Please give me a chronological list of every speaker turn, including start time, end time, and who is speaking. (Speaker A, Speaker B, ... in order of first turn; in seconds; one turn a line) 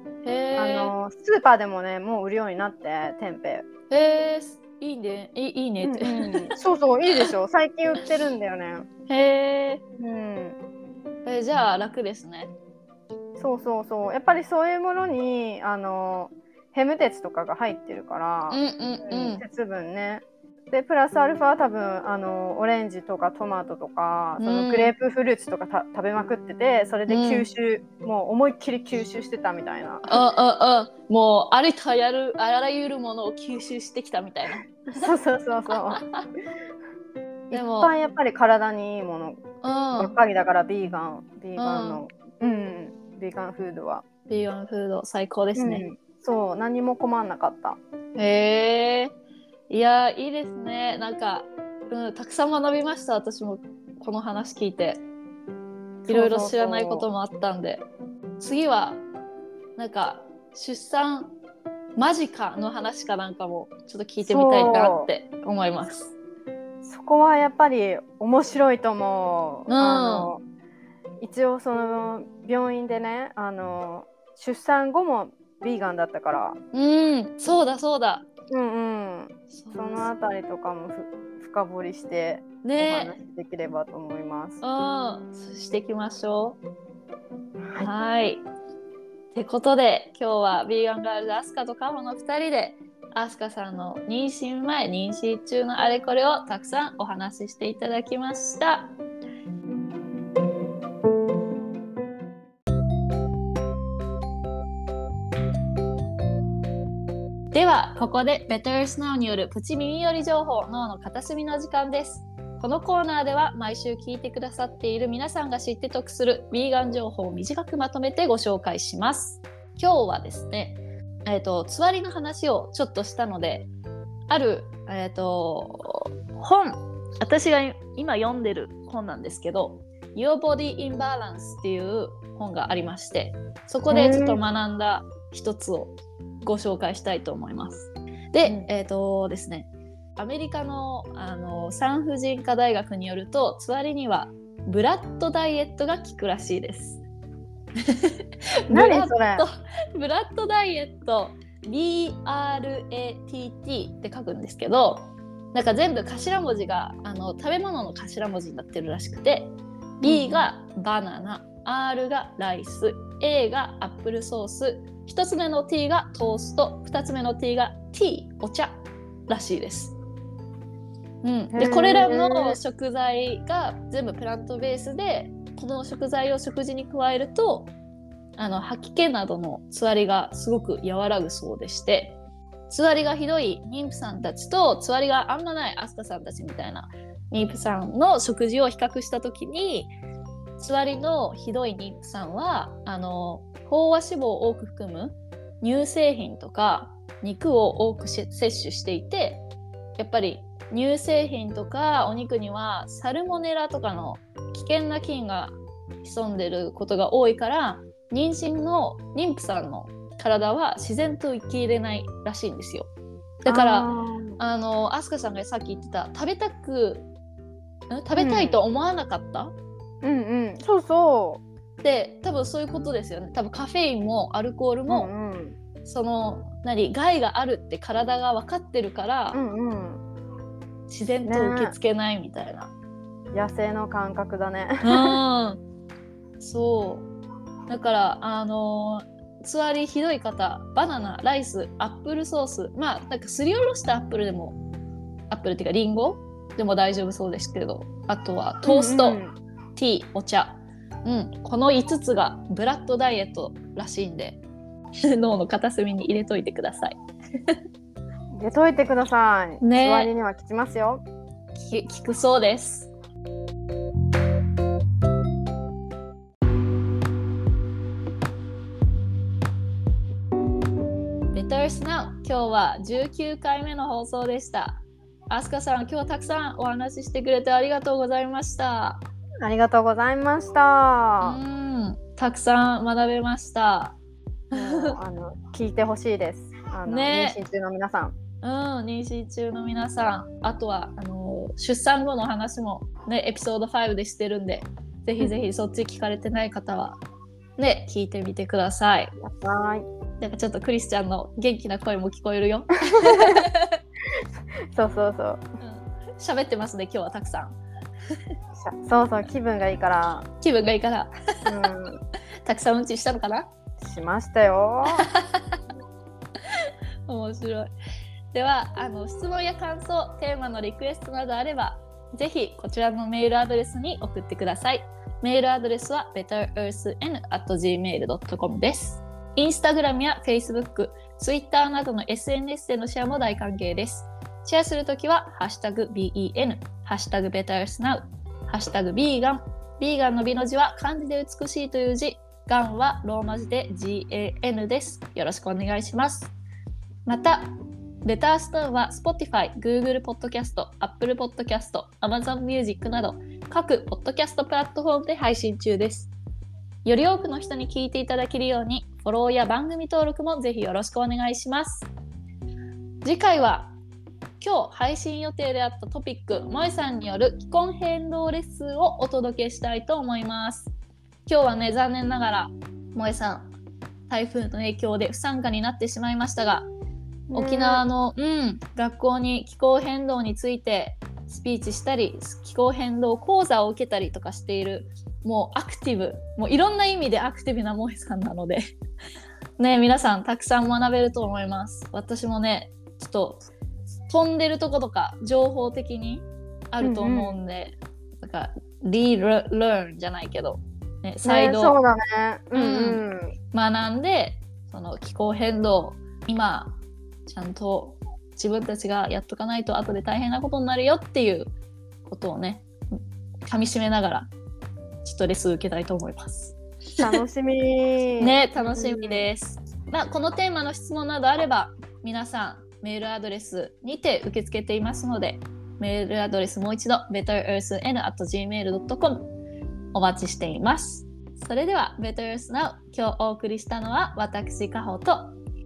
Speaker A: 0.2-0.9
Speaker B: 0.6-3.6
Speaker A: 3.9-6.5
Speaker B: 5.8-8.8
Speaker A: 9.1-9.8
Speaker B: 10.0-10.6
Speaker A: 11.2-12.5
Speaker B: 13.4-30.2
Speaker A: 18.5-19.4
Speaker A: 24.4-24.9
Speaker A: 27.1-27.5
Speaker A: 30.1-35.0
Speaker B: 34.9-36.0
Speaker A: 36.0-36.2
Speaker B: 37.5-39.4
Speaker A: 37.5-37.9
Speaker A: 39.6-40.2
Speaker B: 40.0-44.0
Speaker A: 41.6-42.0
Speaker A: 44.3-45.8
Speaker B: 45.5-47.8
Speaker A: 48.1-49.1
Speaker A: 49.7-55.0
Speaker A: 56.0-57.8
Speaker B: 56.1-57.1
Speaker A: 58.4-59.0
Speaker A: 59.8-61.3
Speaker A: 62.0-66.1
Speaker B: 64.2-65.1
Speaker B: 66.8-70.4
Speaker A: 69.7-70.3
Speaker B: 71.2-76.6
Speaker A: 76.7-78.3
Speaker B: 78.5-84.6
Speaker A: 79.5-80.1
Speaker A: 82.6-83.2
Speaker A: 84.6-86.6
Speaker B: 87.6-87.9
Speaker A: 87.8-88.4
Speaker A: 89.3-98.9
Speaker A: 107.5-123.7
Speaker A: 124.3-147.0
Speaker B: 133.9-134.4
Speaker A: 147.8-169.9
Speaker B: 148.7-149.4
Speaker B: 160.0-160.4
Speaker A: 171.2-177.7
Speaker B: 171.5-172.6
Speaker A: 178.3-182.2
Speaker A: 182.7-189.9
Speaker A: 190.6-199.4
Speaker A: 200.0-212.9
Speaker A: 213.4-217.1
Speaker B: 213.5-214.4
Speaker A: 217.9-219.5
Speaker B: 218.2-218.6
Speaker B: 220.0-221.4
Speaker A: 221.8-225.1
Speaker B: 224.9-225.5
Speaker A: 225.8-229.4
Speaker B: 229.3-230.0
Speaker A: 230.9-232.7
Speaker B: 231.2-231.7
Speaker B: 233.3-235.2
Speaker A: 234.8-235.6
Speaker A: 236.4-237.1
Speaker A: 237.7-244.6
Speaker A: 245.3-249.2
Speaker B: 248.6-249.3
Speaker A: 249.8-254.4
Speaker A: 255.0-257.6
Speaker B: 258.3-261.0
Speaker A: 259.6-260.1
Speaker A: 261.5-262.9
Speaker A: 271.3-279.0
Speaker B: 279.4-281.4
Speaker A: 281.2-283.9
Speaker A: 284.5-284.9
Speaker B: 284.5-288.1
Speaker A: 286.9-287.4
Speaker A: 288.4-297.0
Speaker A: 297.6-299.1
Speaker B: 299.2-299.8
Speaker A: 300.2-303.8
Speaker B: 302.9-303.4
Speaker B: 304.7-305.4
Speaker A: 305.6-307.6
Speaker B: 308.5-310.3
Speaker A: 310.4-311.5
Speaker B: 311.4-312.0
Speaker A: 312.4-313.5
Speaker B: 313.8-315.1
Speaker A: 314.9-315.6
Speaker A: 316.4-317.7
Speaker A: 318.3-346.3
Speaker A: 347.1-347.5
Speaker A: 348.0-356.1
Speaker A: 356.8-361.9
Speaker A: 363.0-363.7
Speaker A: 364.4-370.7
Speaker A: 371.2-373.5
Speaker A: 374.1-376.7
Speaker B: 377.3-377.8
Speaker A: 377.3-388.6
Speaker A: 389.6-393.4
Speaker A: 394.1-401.8
Speaker B: 396.8-397.4
Speaker B: 401.2-403.3
Speaker A: 402.5-411.5
Speaker A: 412.1-414.3
Speaker A: 415.0-417.2
Speaker B: 417.0-419.2
Speaker A: 418.2-429.3
Speaker A: 429.9-435.3